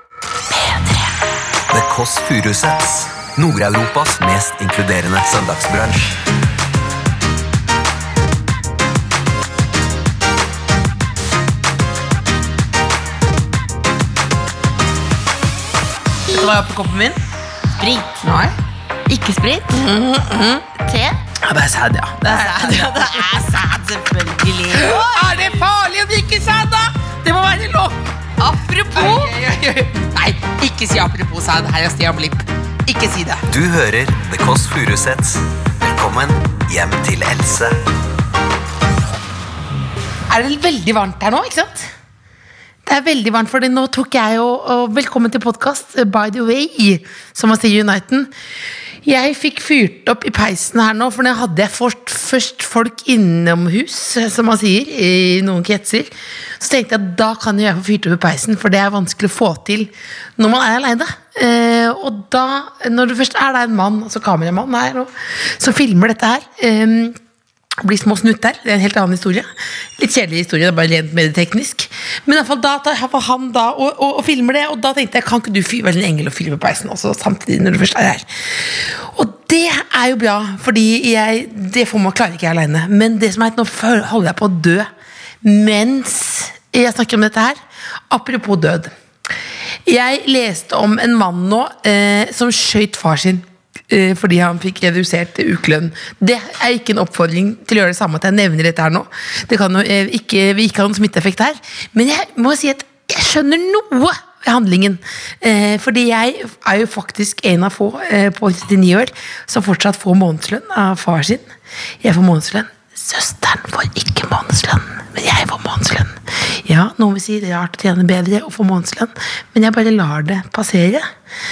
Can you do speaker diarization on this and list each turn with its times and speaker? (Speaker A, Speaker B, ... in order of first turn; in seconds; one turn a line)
Speaker A: 0.5-1.0
Speaker B: 1.7-6.2
Speaker A: 16.3-17.2
Speaker C: 17.8-18.2
Speaker A: 18.2-18.5
Speaker C: 19.1-19.8
Speaker A: 19.7-20.6
Speaker C: 20.8-21.2
Speaker A: 21.4-23.2
Speaker C: 22.2-25.2
Speaker A: 24.7-28.0
Speaker C: 28.4-29.3
Speaker A: 28.9-33.4
Speaker B: 33.5-37.7
Speaker A: 40.3-41.9
Speaker A: 42.9-48.3
Speaker A: 49.0-67.2
Speaker A: 67.8-69.5
Speaker A: 70.0-84.9
Speaker A: 85.4-87.6
Speaker A: 88.1-88.9
Speaker A: 89.8-111.5
Speaker A: 112.0-121.1